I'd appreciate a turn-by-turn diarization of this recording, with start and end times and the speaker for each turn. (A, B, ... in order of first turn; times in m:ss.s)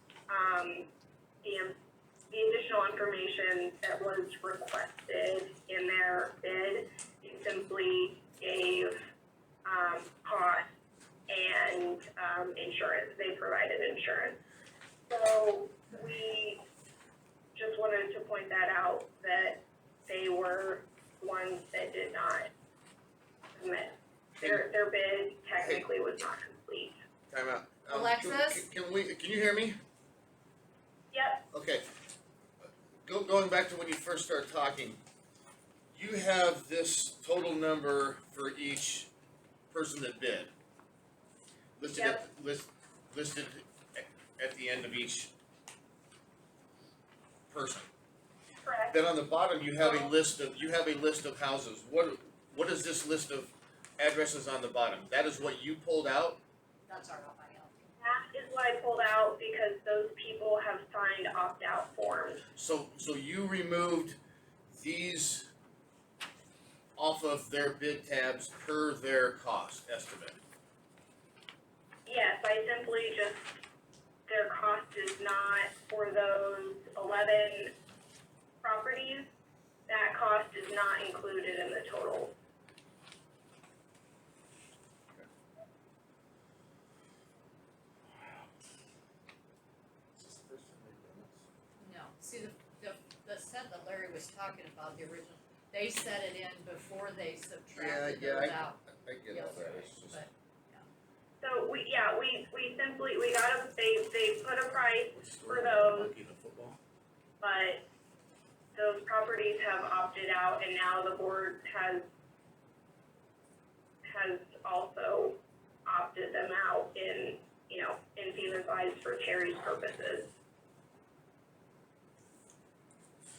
0:00.3-0:00.9 A
0:01.4-0:01.8 A
0:02.3-0:09.0 A
0:09.6-0:10.7 A
0:11.3-0:14.4 A
0:15.1-0:16.6 A
0:17.6-0:22.5 A
0:23.5-0:27.0 A
0:24.4-0:24.7 B
0:25.6-0:25.8 B
0:27.3-0:29.8 B
0:27.9-0:28.7 C
0:31.1-0:31.5 A
0:31.5-0:31.9 B
0:33.0-0:35.0 B
0:35.9-0:39.1 B
0:39.7-0:40.5 B
0:41.8-0:45.3 B
0:41.9-0:42.2 A
0:47.5-0:47.9 B
0:48.6-0:49.0 A
0:48.9-0:56.4 B
0:56.9-0:57.8 C
0:58.0-1:02.4 A
1:02.6-1:04.2 B
1:04.7-1:05.5 B
1:07.0-1:10.4 B
1:12.0-1:13.6 A
1:14.3-1:17.7 A
1:18.6-1:19.3 A
1:19.9-1:22.4 A
1:30.2-1:31.4 B
1:31.8-1:40.8 C
1:37.8-1:40.2 B
1:41.4-1:46.1 A
1:45.2-1:46.8 B
1:47.4-1:47.9 A
1:48.7-1:52.1 A
1:54.0-2:00.3 A